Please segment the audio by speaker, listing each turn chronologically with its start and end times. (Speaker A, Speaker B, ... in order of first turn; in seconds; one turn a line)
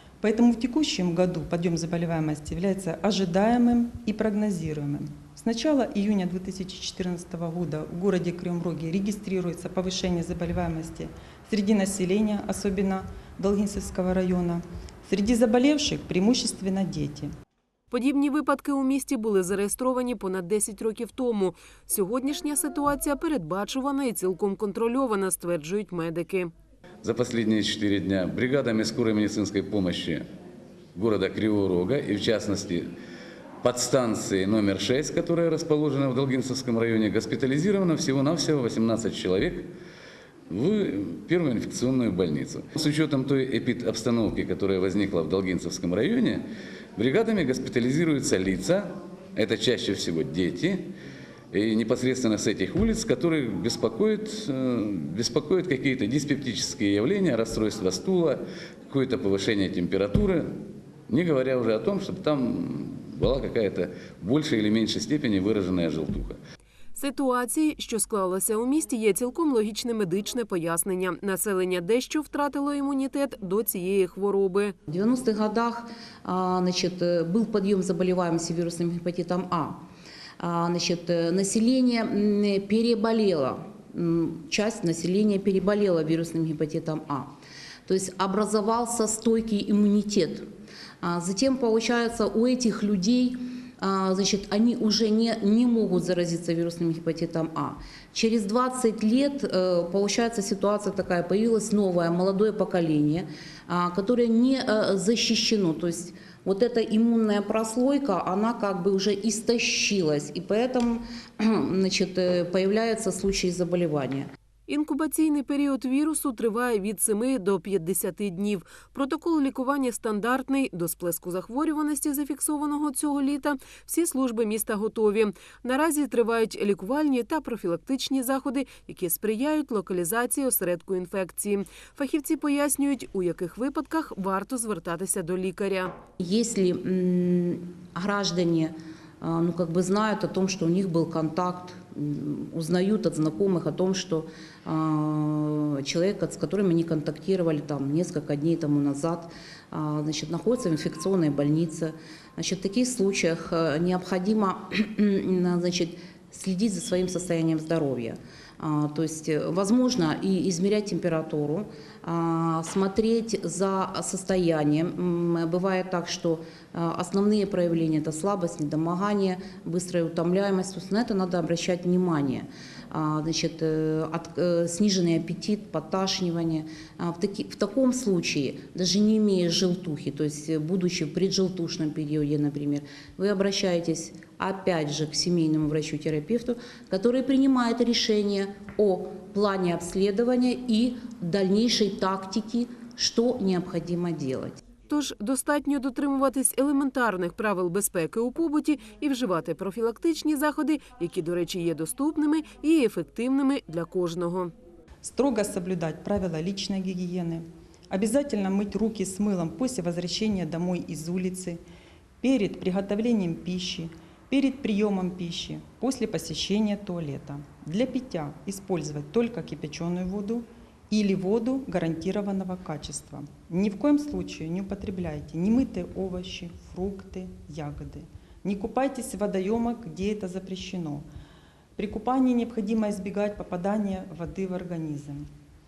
Speaker A: 0.2-17.3
Speaker B: 17.9-26.5
Speaker C: 27.0-30.2
Speaker C: 30.9-32.9
Speaker C: 33.6-39.7
Speaker C: 40.5-46.4
Speaker C: 47.0-50.9
Speaker C: 51.5-60.5
Speaker C: 61.1-66.4
Speaker B: 67.0-74.8
Speaker D: 74.9-79.8
Speaker D: 80.4-87.3
Speaker D: 87.9-90.5
Speaker D: 91.0-114.3
Speaker B: 114.7-135.9
Speaker D: 136.2-194.6
Speaker B: 194.9-204.5
Speaker A: 205.0-211.6
Speaker A: 212.2-231.1
Speaker A: 231.8-235.3